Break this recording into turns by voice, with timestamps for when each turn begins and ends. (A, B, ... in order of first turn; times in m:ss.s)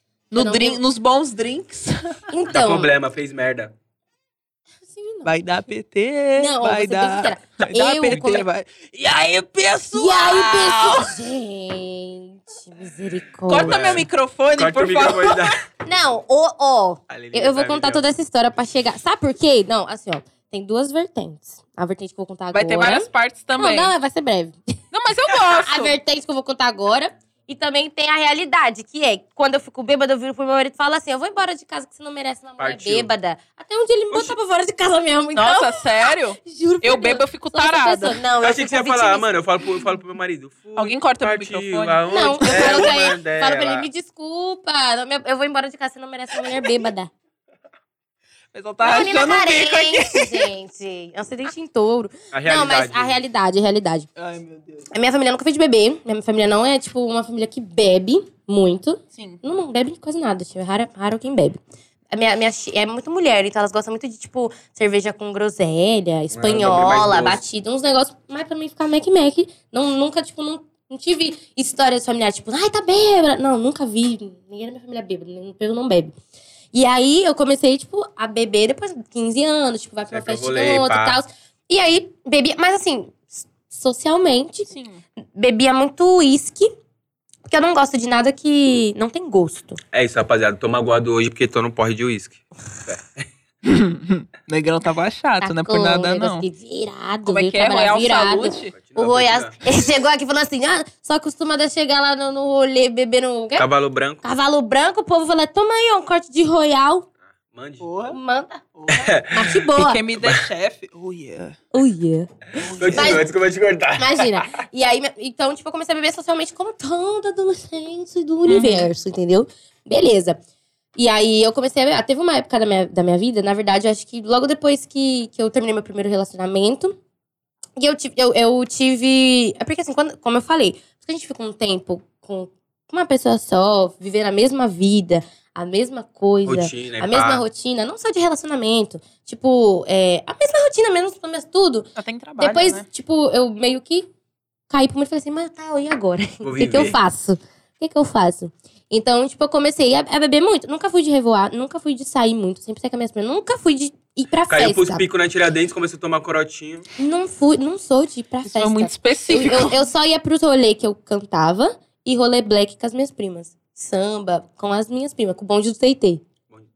0:00.3-0:02.1 A
0:00.3-0:00.8 B
0:02.3-0:02.9 B
0:02.5-0:03.7 C
0:04.9-0:05.3 B
0:05.2-0:11.2 A
0:06.4-0:08.5 B
0:09.9-0:14.0 B
0:13.5-0:15.6 A
0:13.6-0:15.6 C
0:15.8-0:24.6 B
0:17.1-0:18.0 C
0:22.5-0:23.9 A
0:24.9-0:25.9 A
0:25.6-0:39.3 B
0:32.6-0:33.1 C
0:35.3-0:38.2 A
0:38.4-0:43.9 C
0:40.8-0:43.0 A
0:42.1-0:47.1 B
0:48.5-0:50.5 A
0:48.8-0:54.1 B
0:52.3-0:53.2 C
0:54.2-0:54.9 A
0:54.9-1:01.6 B
0:59.1-0:59.4 A
1:02.1-1:16.1 B
1:06.3-1:07.4 C
1:16.7-1:24.7 B
1:20.1-1:21.2 C
1:24.7-1:25.0 A
1:25.4-1:26.7 B
1:27.5-1:29.8 B
1:29.9-1:33.2 C
1:33.6-1:36.4 A
1:35.4-1:43.7 B
1:37.2-1:38.7 A
1:38.7-1:39.6 C
1:43.6-1:44.2 C
1:44.2-1:47.1 B
1:47.5-1:47.9 C
1:47.8-1:48.2 A
1:48.1-1:48.6 B
1:48.8-1:49.1 A
1:48.9-1:49.6 C
1:49.3-1:50.0 B
1:49.7-1:51.6 A
1:51.7-1:52.3 B
1:52.6-1:53.2 A
1:52.7-1:54.4 C
1:52.9-1:53.2 B
1:54.0-2:00.4 B
1:58.4-1:58.9 A
2:01.0-2:07.0 B
2:07.8-2:21.9 B
2:16.4-2:17.4 C
2:22.0-2:22.8 A
2:22.4-2:24.1 B
2:24.7-2:35.0 B
2:26.4-2:27.0 C
2:34.5-2:36.8 C
2:37.0-2:46.2 B
2:38.4-2:39.9 A